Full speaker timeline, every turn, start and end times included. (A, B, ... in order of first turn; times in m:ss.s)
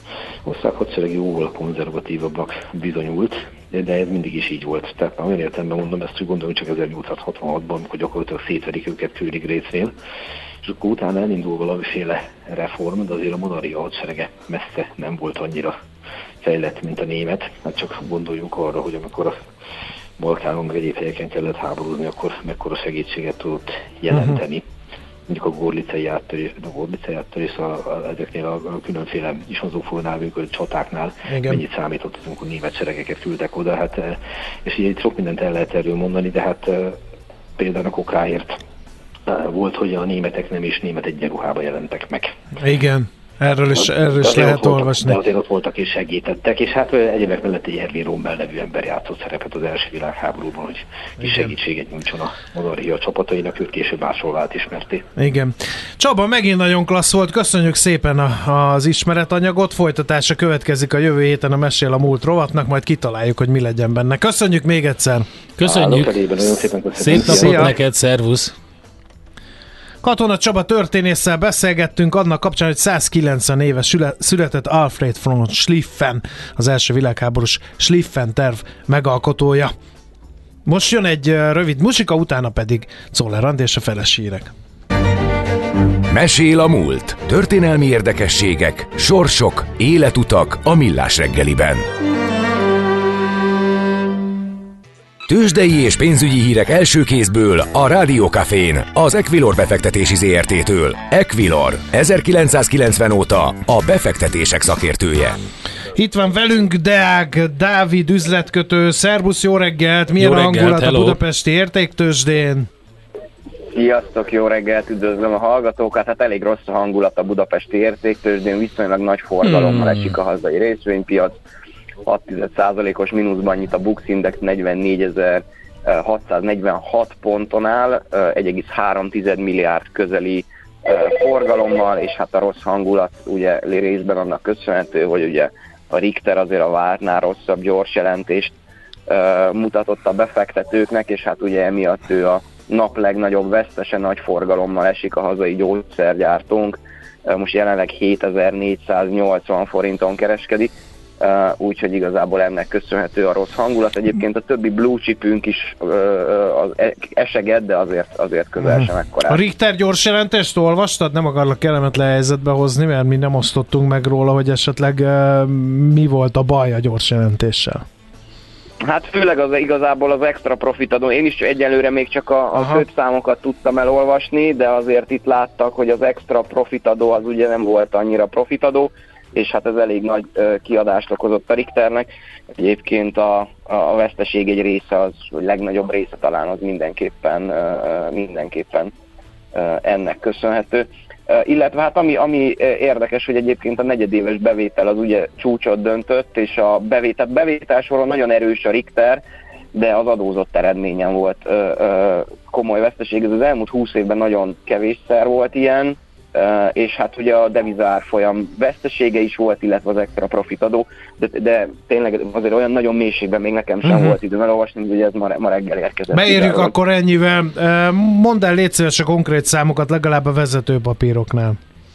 0:00.4-0:09.9 A
0:10.6-0:15.8 A
0:16.4-0:19.4 A
0:20.2-0:24.6 A
0:25.3-0:37.0 A
0:31.3-0:31.6 B
0:37.6-0:38.6 A
0:39.3-0:42.3 A
0:42.6-0:45.2 B
0:43.8-0:55.1 A
0:51.2-0:51.5 B
0:55.2-1:05.3 B
1:05.6-1:06.2 C
1:05.6-1:07.7 A
1:07.0-1:08.6 C
1:07.1-1:07.7 B
1:10.0-1:19.7 B
1:20.6-1:24.5 B
1:26.1-1:31.9 D
1:35.3-1:45.4 D
1:46.0-1:52.7 B
1:50.2-1:51.2 C
1:53.7-2:01.4 E
1:59.4-2:00.1 C
2:02.0-2:18.5 E
2:19.1-2:39.4 E
2:38.6-2:47.8 B
2:48.8-3:08.9 E
2:52.6-2:52.8 B
3:09.5-3:19.2 E
3:19.7-3:36.7 E
3:33.8-3:34.2 B
3:36.1-3:41.6 B